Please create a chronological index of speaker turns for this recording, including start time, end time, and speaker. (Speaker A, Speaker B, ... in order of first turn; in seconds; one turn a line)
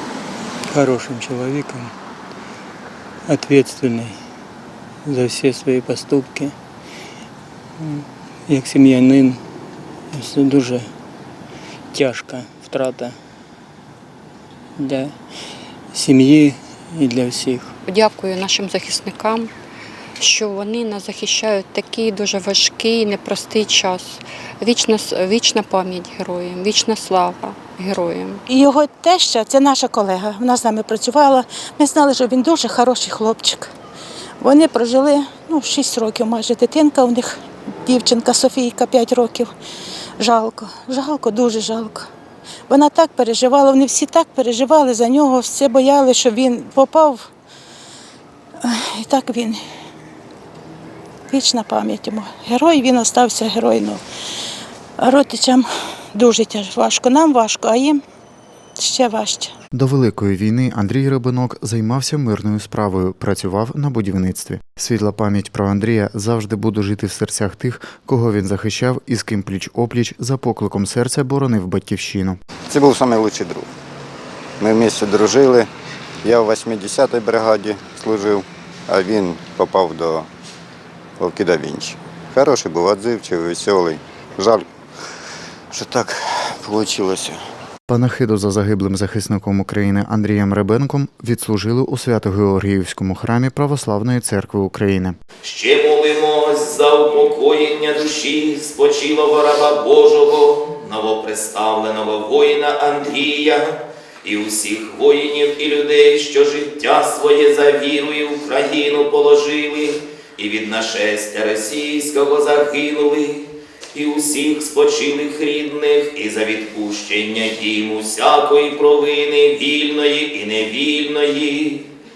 Speaker A: 0.7-1.9
Speaker A: 3.3-4.2
Speaker A: 5.0-6.5
Speaker A: 7.8-9.4
Speaker A: 10.1-10.9
Speaker A: 11.9-13.2
Speaker A: 14.8-15.1
Speaker A: 15.9-17.7
Speaker B: 17.9-19.5
Speaker B: 20.2-28.4
Speaker C: 28.5-33.7
Speaker C: 34.4-39.5
Speaker C: 40.2-42.1
Speaker C: 42.7-47.2
Speaker C: 48.6-49.6
Speaker C: 51.3-54.0
Speaker C: 55.0-58.0
Speaker C: 58.8-59.5
Speaker D: 59.7-72.4
Speaker E: 72.7-73.7
Speaker E: 74.6-75.7
Speaker E: 76.2-80.3
Speaker E: 81.2-84.6
Speaker E: 85.7-87.4
Speaker D: 87.9-95.2
Speaker F: 95.4-121.9